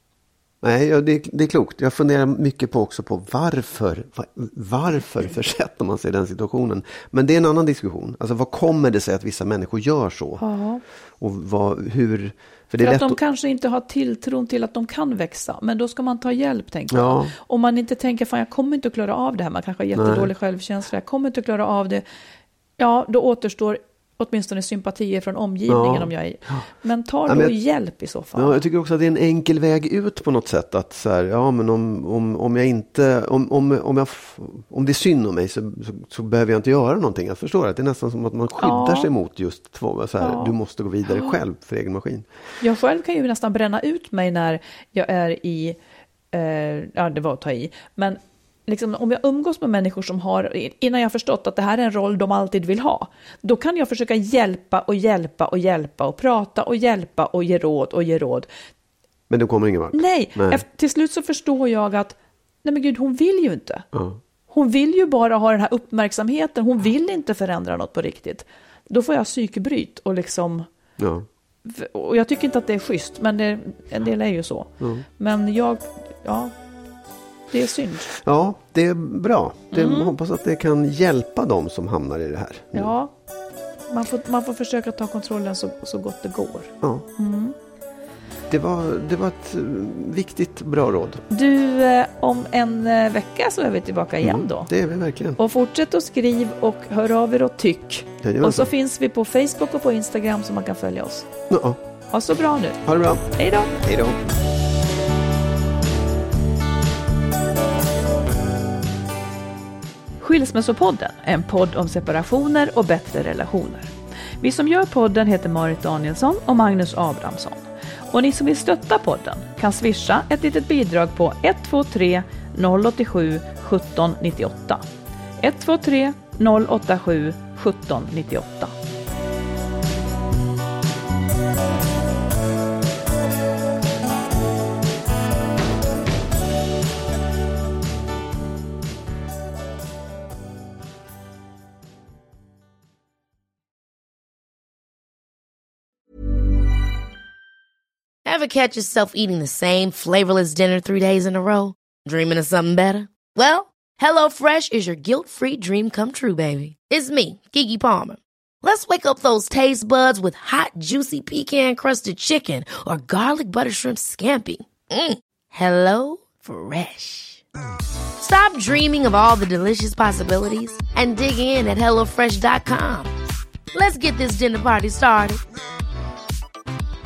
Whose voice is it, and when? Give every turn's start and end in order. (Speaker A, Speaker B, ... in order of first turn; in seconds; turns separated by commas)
Speaker A: 0.6-10.4, Speaker B: 10.4-10.8, Speaker A: 11.2-13.2, Speaker B: 12.8-22.0, Speaker A: 16.9-17.3, Speaker A: 19.9-20.3, Speaker B: 22.8-28.6, Speaker A: 25.7-26.6, Speaker A: 27.3-27.6, Speaker A: 28.3-42.3, Speaker B: 38.6-39.1, Speaker B: 40.2-40.5, Speaker B: 41.1-41.3, Speaker B: 42.6-45.8, Speaker B: 46.3-58.5, Speaker A: 59.3-60.6, Speaker B: 59.9-63.9, Speaker A: 63.9-64.2, Speaker B: 64.5-70.7, Speaker A: 71.0-71.2, Speaker B: 71.6-76.5, Speaker A: 74.8-75.0, Speaker B: 77.5-78.1, Speaker A: 78.1-82.9, Speaker B: 79.7-80.1, Speaker B: 82.7-83.1, Speaker B: 83.9-87.5, Speaker A: 88.5-91.2, Speaker B: 91.3-94.7, Speaker A: 94.2-95.4, Speaker B: 95.4-101.3, Speaker A: 98.2-98.7, Speaker A: 101.5-101.8, Speaker B: 102.1-102.8, Speaker A: 102.8-104.2, Speaker B: 103.3-103.7, Speaker B: 110.2-124.8, Speaker B: 125.4-128.7, Speaker C: 148.2-167.4, Speaker C: 168.2-173.1, Speaker C: 173.7-175.4